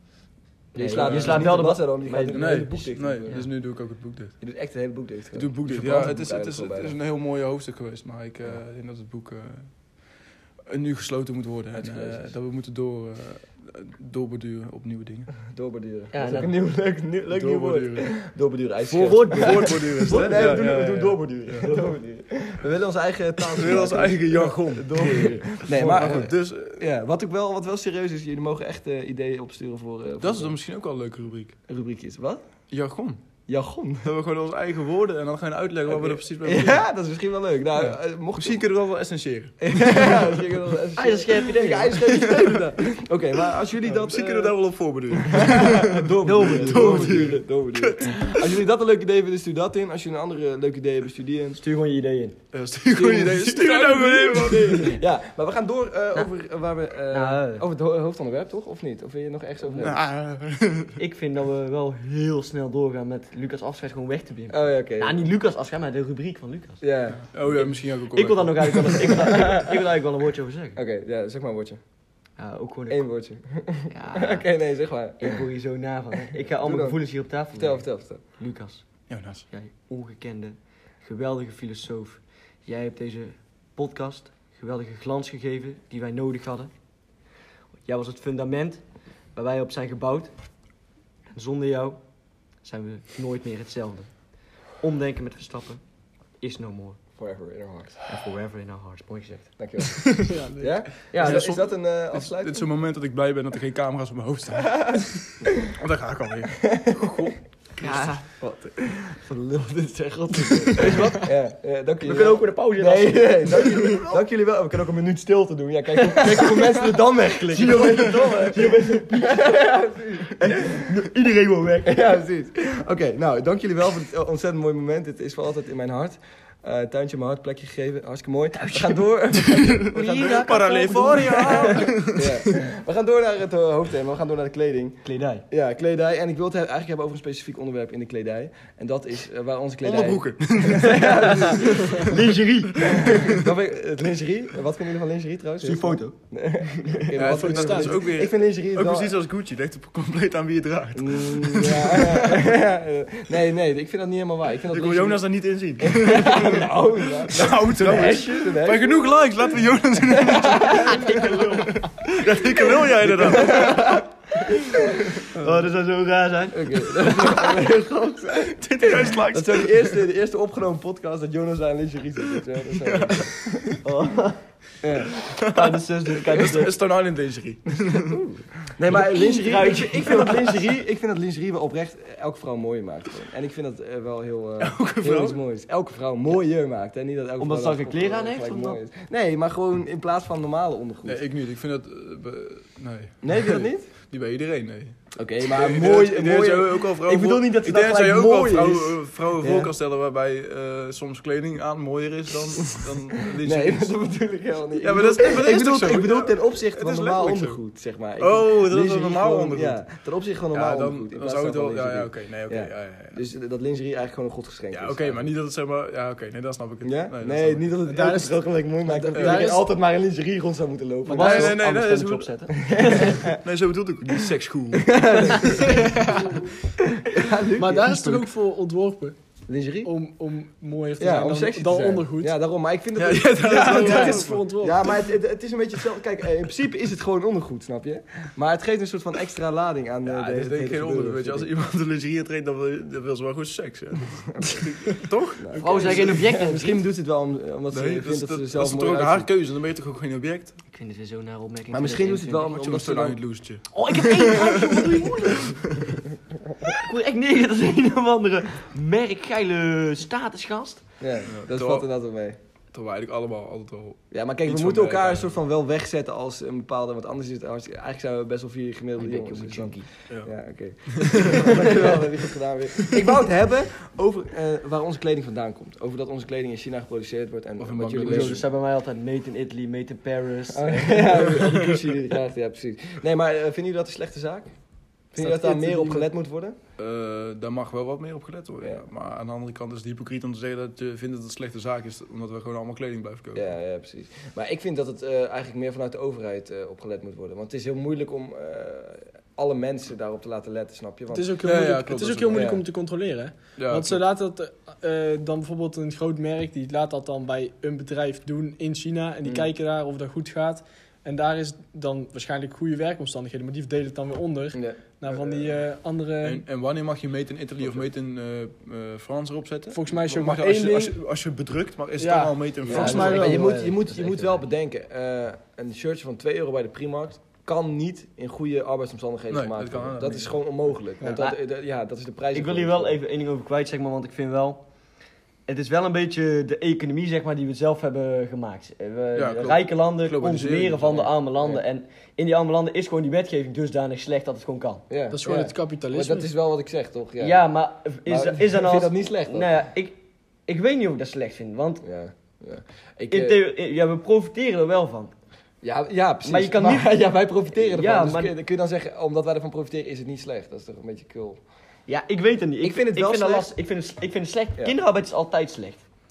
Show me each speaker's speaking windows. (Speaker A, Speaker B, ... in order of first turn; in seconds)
Speaker A: 0.7-3.5, 16.1-16.5, 18.9-20.9, 21.6-21.9, 41.0-42.0, 46.2-47.4, 51.6-52.4, 57.1-57.6, 61.0-66.9, 67.5-70.8, 72.3-73.0, 73.9-74.6, 75.2-86.8, 87.7-90.7, 91.3-95.8, 96.3-97.0, 98.0-99.6, 101.1-101.5, 107.8-108.3, 110.7-111.3, 112.0-114.2, 116.0-119.6, 120.4-122.0, 128.6-131.9, 135.0-135.4, 140.7-143.2, 145.6-146.1, 160.9-161.8, 163.4-164.8, 165.3-167.5, 173.8-174.4, 175.5-176.7, 178.1-180.7, 187.4-188.8, 197.1-198.9, 221.1-223.3, 245.6-246.8, 250.7-252.5, 253.7-255.6, 256.7-260.9, 269.0-269.9, 271.3-271.9, 278.0-281.5, 322.7-324.4, 331.1-331.4, 332.3-334.7, 335.4-344.8, 347.2-351.8, 353.1-355.1, 356.2-357.0, 357.5-358.3, 361.9-365.8
Speaker B: 0.7-3.5, 4.4-6.9, 11.8-12.3, 15.4-30.5, 31.7-32.4, 33.5-34.1, 35.9-38.6, 39.6-44.5, 45.2-51.6, 52.9-60.0, 64.5-65.2, 66.8-67.3, 69.2-69.8, 70.7-71.8, 72.9-75.4, 76.3-78.2, 97.2-98.0, 99.6-102.7, 106.6-107.3, 107.8-121.1, 121.8-142.0, 142.8-149.1, 150.9-155.2, 155.8-159.1, 160.1-161.6, 163.0-164.0, 165.3-165.7, 166.5-173.8, 174.8-175.1, 178.7-191.2, 193.2-193.9, 195.2-196.9, 199.4-199.7, 203.4-215.3, 216.8-221.6, 222.6-223.4, 224.8-226.1, 227.0-228.2, 229.5-229.9, 231.0-241.5, 245.4-249.3, 251.7-253.2, 261.0-262.4, 264.1-278.4, 280.5-284.5, 285.1-286.6, 293.3-301.4, 302.3-302.6, 314.5-314.8, 322.6-333.0, 344.9-347.4, 348.1-349.5, 351.8-353.4, 355.6-361.4, 362.6-363.5
Speaker C: 0.9-1.7, 2.2-4.3, 5.3-15.3, 17.3-18.1, 19.3-21.7, 23.5-26.9, 30.2-31.6, 32.7-33.2, 34.0-36.8, 37.8-40.1, 42.2-42.6, 43.8-48.5, 52.5-55.0, 59.8-61.0, 67.3-69.4, 79.1-79.5, 101.2-107.4, 110.8-111.1, 129.5-132.6, 139.8-143.4, 147.1-152.4, 154.7-164.0, 168.5-170.0, 172.7-173.8, 175.0-178.2, 179.6-180.3, 184.6-185.4, 191.0-203.9, 204.8-207.6, 208.2-209.8, 210.5-213.2, 214.7-217.7, 219.1-219.5, 221.1-222.3, 223.0-225.6, 232.9-234.4, 240.0-246.2, 247.7-250.6, 252.5-256.0, 261.3-261.9, 262.7-265.3, 270.9-271.5, 277.6-278.4, 286.8-293.5, 301.4-302.5, 303.6-304.0, 316.2-323.4, 329.3-330.5, 339.1-341.1
Speaker D: 100.2-100.8, 147.3-148.0, 217.8-219.7, 225.5-226.5, 227.6-229.2, 229.8-232.3, 233.4-234.9, 285.1-286.0, 301.1-316.4, 319.7-321.0, 322.0-323.4, 345.1-346.3